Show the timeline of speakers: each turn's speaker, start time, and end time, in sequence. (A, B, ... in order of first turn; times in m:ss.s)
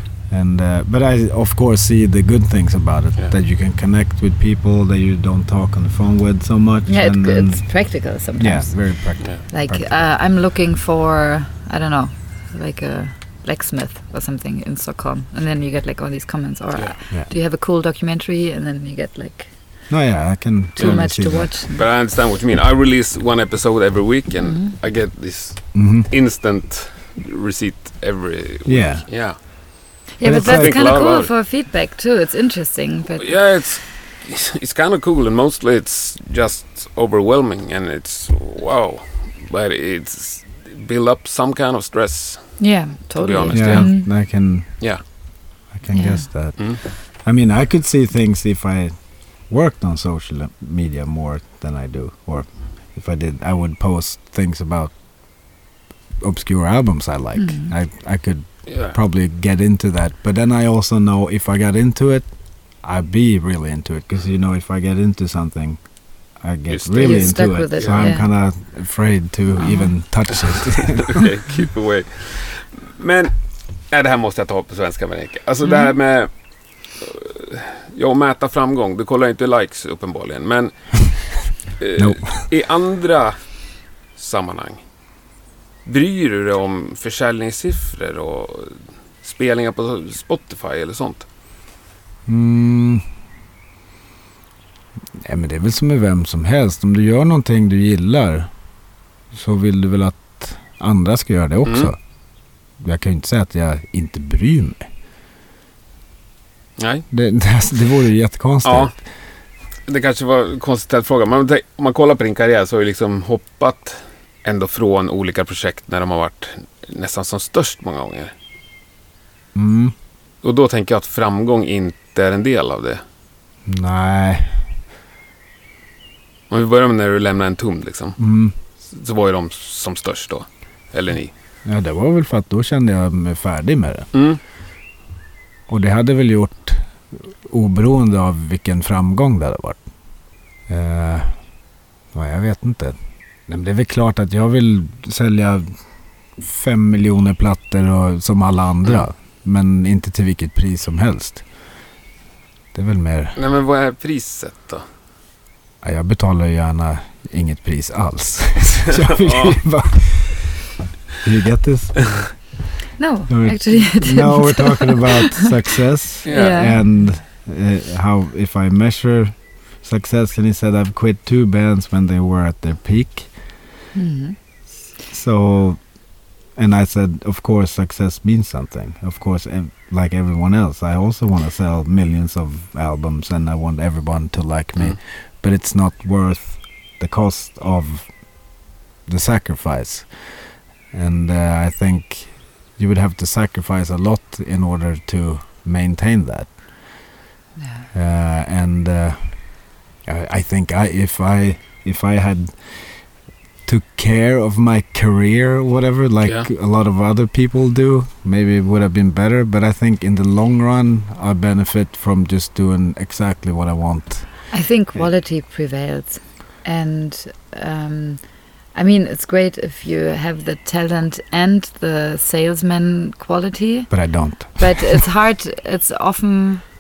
0:00.3-0:07.6 A
0:06.9-0:08.8 B
0:08.4-0:10.0 A
0:09.5-0:19.5 B
0:19.9-0:21.5 A
0:20.8-0:21.0 C
0:20.8-0:21.8 B
0:21.7-0:29.4 C
0:24.4-0:24.7 B
0:25.7-0:26.1 A
0:28.6-0:29.1 A
0:30.2-0:33.4 B
0:30.2-0:30.8 A
0:30.3-0:31.3 C
0:33.2-0:42.6 C
0:42.6-0:44.1 B
0:43.1-0:44.1 C
0:43.5-0:44.8 A
0:45.7-0:48.9 A
0:45.9-0:46.2 B
0:46.6-0:46.8 C
0:49.5-0:54.9 A
0:56.2-1:02.3 A
0:57.4-0:57.7 B
0:58.7-0:59.0 C
1:02.8-1:05.8 A
1:06.4-1:11.2 A
1:06.7-1:08.1 C
1:07.0-1:08.2 B
1:09.6-1:09.9 B
1:10.3-1:13.3 C
1:13.9-1:16.3 C
1:15.6-1:16.0 B
1:16.8-1:24.8 C
1:22.0-1:22.2 A
1:25.9-1:31.2 C
1:32.2-1:33.0 A
1:35.2-1:38.5 A
1:39.3-1:42.0 A
1:41.6-1:41.9 C
1:42.8-1:44.9 A
1:46.8-1:47.1 C
1:47.1-1:48.9 A
1:48.6-1:48.9 C
1:49.9-1:58.3 C
1:59.5-1:59.9 A
2:00.4-2:03.0 C
2:03.6-2:04.6 A
2:06.5-2:08.2 C
2:08.2-2:08.5 A
2:08.9-2:11.3 C
2:11.6-2:14.1 A
2:14.1-2:14.4 C
2:15.7-2:19.8 A
2:20.7-2:21.4 A
2:22.1-2:23.0 A
2:23.5-2:25.7 A
2:26.4-2:31.4 A
2:32.7-2:33.4 A
2:33.4-2:34.8 C
2:35.8-2:40.6 A
2:38.9-2:39.6 C
2:41.2-2:42.3 A
2:43.0-2:45.5 B
2:43.3-2:53.3 A
2:46.2-2:46.7 C
2:46.3-2:47.0 B
2:53.9-2:54.4 B
2:55.1-2:55.8 A
2:56.6-3:08.1 A
3:09.1-3:10.1 A
3:10.9-3:16.5 A
3:17.6-3:17.9 B
3:17.9-3:19.3 A
3:20.1-3:22.8 A
3:23.6-3:34.3 A
3:34.5-3:38.2 B
3:38.7-3:43.9 B
3:43.9-3:45.0 A
3:44.6-3:46.6 B